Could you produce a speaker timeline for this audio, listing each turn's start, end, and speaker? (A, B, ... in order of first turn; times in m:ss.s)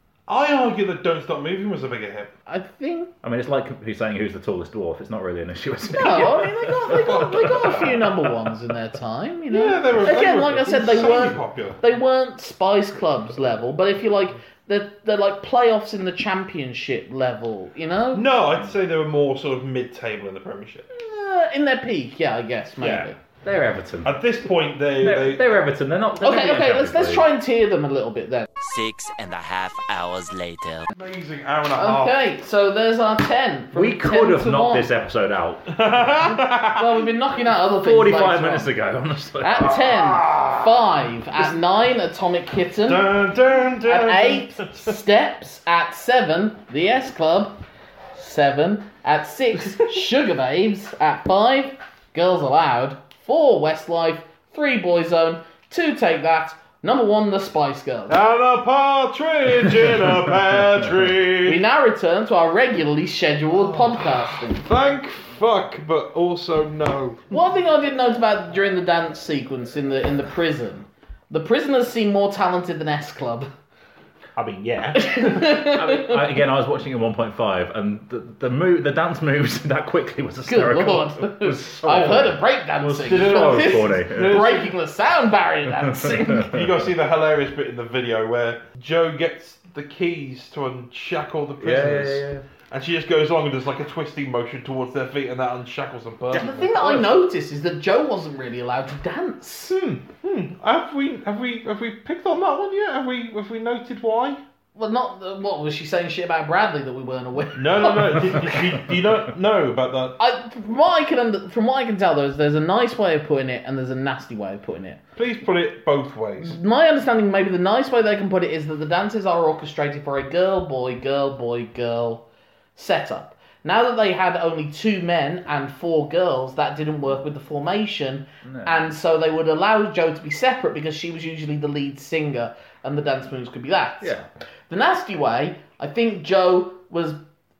0:00.3-0:02.3 A
0:02.5-0:03.1 B
0:03.2-0:07.9 C
0:05.9-0:18.2 B
0:06.8-0:08.1 A
0:09.5-0:11.8 A
0:18.1-0:20.9 A
0:20.9-0:23.2 B
0:22.8-0:23.1 A
0:23.4-0:24.2 C
0:24.0-0:25.6 A
0:25.0-0:27.3 C
0:26.2-0:28.5 B
0:28.6-0:30.9 D
0:30.9-0:32.2 A
0:31.8-0:34.9 B
0:33.7-0:35.9 C
0:35.7-0:36.9 A
0:36.7-0:38.7 B
0:37.7-0:39.9 C
0:39.4-0:43.1 B
0:39.8-0:40.8 A
0:42.8-0:44.9 A
0:43.8-0:47.6 B
0:48.1-0:58.2 B
0:58.1-1:01.6 A
1:01.4-1:04.6 B
1:03.6-1:07.2 A
1:07.3-1:13.5 B
1:14.4-1:15.3 A
1:14.9-1:16.3 B
1:15.5-1:24.6 C
1:20.4-1:26.5 B
1:22.8-1:24.8 A
1:26.0-1:26.6 C
1:26.4-1:37.2 A
1:31.6-1:32.4 C
1:36.3-1:39.8 B
1:39.7-1:44.4 A
1:44.8-1:48.6 B
1:47.6-1:50.2 A
1:50.2-1:55.0 B
1:55.2-1:56.6 A
1:56.4-2:02.2 B
2:02.8-2:14.2 B
2:08.4-2:08.8 C
2:14.0-2:14.3 C
2:14.7-2:17.2 B